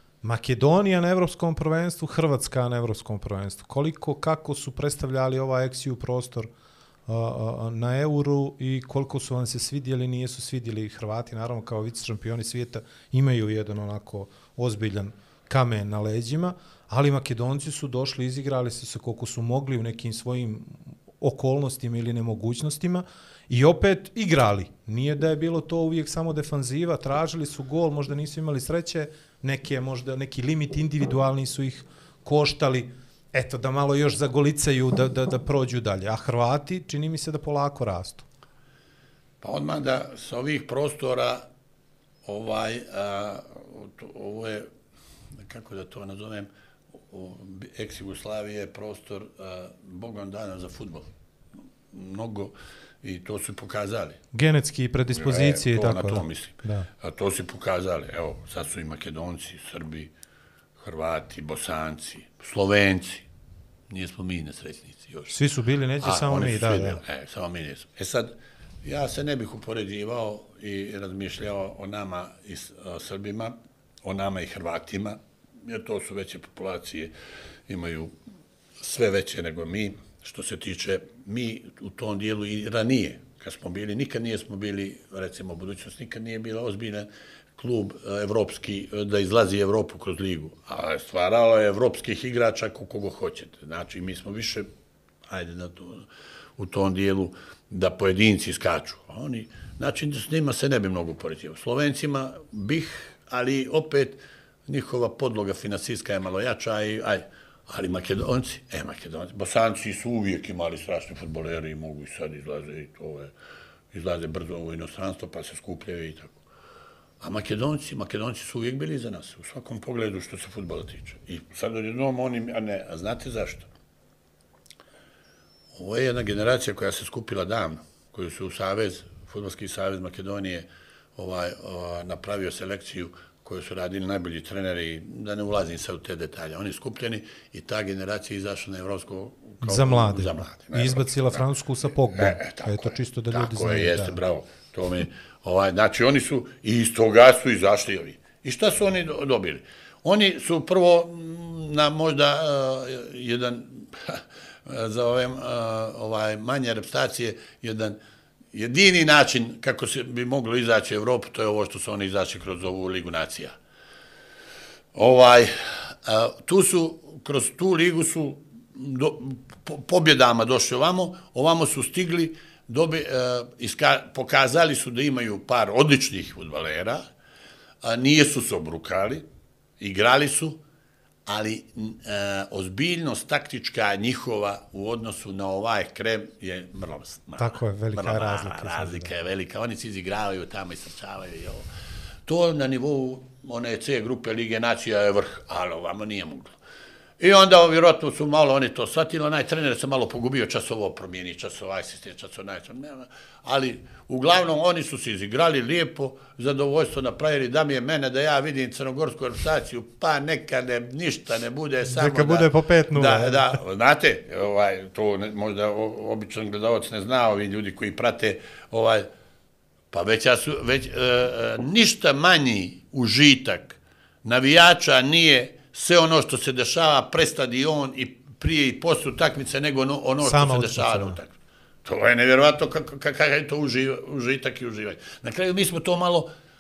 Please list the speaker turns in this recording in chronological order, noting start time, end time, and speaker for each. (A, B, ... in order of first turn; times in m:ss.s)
0:00.2-0:06.5 A
0:07.1-0:38.2 A
0:39.4-0:41.4 B
0:42.2-0:44.7 B
0:45.4-0:51.1 B
0:51.9-0:54.2 B
0:54.3-0:56.9 A
0:55.1-1:00.1 B
1:00.8-1:03.2 B
1:03.9-1:05.3 B
1:05.3-1:07.0 A
1:06.0-1:17.1 B
1:17.7-1:18.1 B
1:18.8-1:34.7 B
1:35.3-1:53.3 B
1:53.9-1:56.4 B
1:57.2-2:03.7 B
2:05.7-2:21.4 B
2:19.6-2:24.2 A
2:22.1-2:38.0 B
2:38.5-2:43.5 B
2:44.9-2:57.0 B
2:57.8-2:59.2 B
2:59.8-3:00.6 B
3:01.2-3:11.6 B
3:07.4-3:09.1 A
3:12.2-3:16.6 B
3:17.2-3:39.1 B
3:31.9-3:33.6 A
3:39.9-3:51.3 B
3:50.2-3:51.2 A
3:51.8-3:56.3 B